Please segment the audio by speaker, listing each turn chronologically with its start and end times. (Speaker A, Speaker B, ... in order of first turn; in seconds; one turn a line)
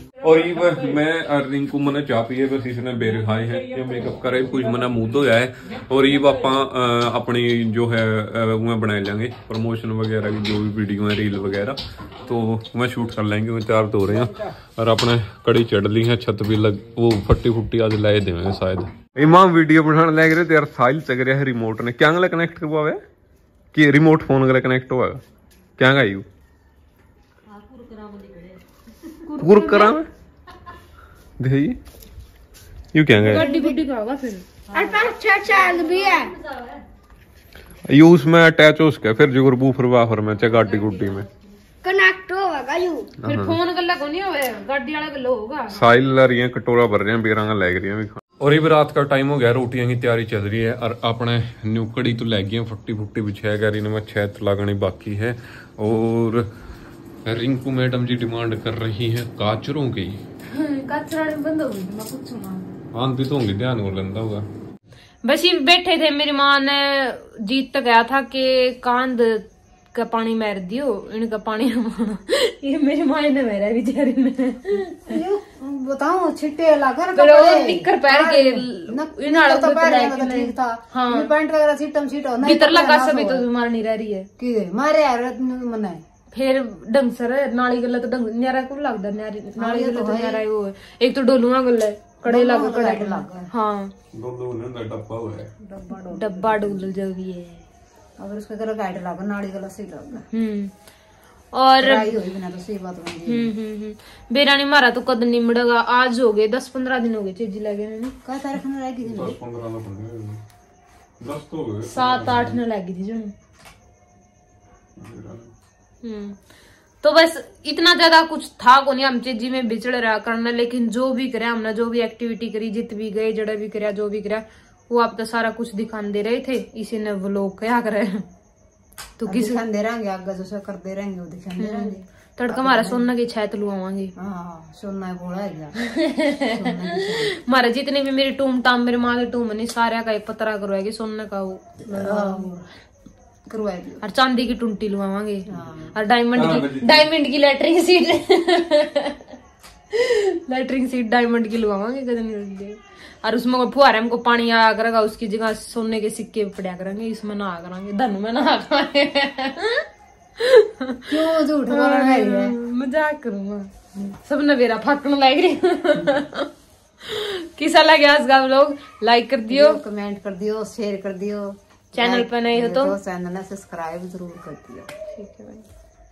Speaker A: 0.2-23.0
Speaker A: 23.7-25.2
Speaker A: 25.8-26.2
Speaker B: 29.3-30.0
Speaker A: 29.4-30.0
Speaker A: 31.4-31.8
Speaker A: 32.9-33.5
Speaker B: 33.2-34.5
Speaker C: 33.4-33.7
Speaker C: 34.7-36.3
Speaker A: 37.9-41.3
Speaker C: 41.8-43.1
Speaker A: 43.2-43.5
Speaker B: 43.2-45.8
Speaker A: 45.7-56.5
Speaker A: 57.2-60.2
Speaker B: 60.5-62.7
Speaker A: 62.9-64.5
Speaker B: 65.2-75.1
Speaker C: 75.1-83.5
Speaker B: 77.1-81.3
Speaker B: 82.4-84.3
Speaker C: 84.4-86.0
Speaker B: 86.3-93.9
Speaker C: 89.6-90.4
Speaker C: 92.2-93.5
Speaker A: 94.1-95.5
Speaker C: 95.6-96.9
Speaker B: 96.1-97.6
Speaker C: 98.2-100.2
Speaker B: 100.3-100.7
Speaker B: 101.5-102.1
Speaker C: 101.8-103.5
Speaker B: 103.2-108.2
Speaker C: 108.2-109.4
Speaker A: 109.0-110.4
Speaker A: 111.2-112.6
Speaker B: 111.8-113.3
Speaker A: 115.0-115.5
Speaker B: 116.0-116.4
Speaker B: 117.0-128.2
Speaker B: 129.2-129.6
Speaker C: 129.3-133.1
Speaker B: 131.6-134.1
Speaker C: 134.2-135.8
Speaker B: 135.8-142.5
Speaker C: 136.4-137.3
Speaker C: 141.9-142.6
Speaker C: 143.5-144.0
Speaker B: 144.0-149.2
Speaker C: 145.5-145.9
Speaker A: 146.3-147.1
Speaker B: 149.9-159.8
Speaker B: 160.4-161.1
Speaker C: 161.1-162.5
Speaker B: 161.7-163.7
Speaker B: 164.2-166.5
Speaker B: 167.0-169.8
Speaker C: 169.5-174.9
Speaker B: 171.9-173.0
Speaker B: 175.1-175.7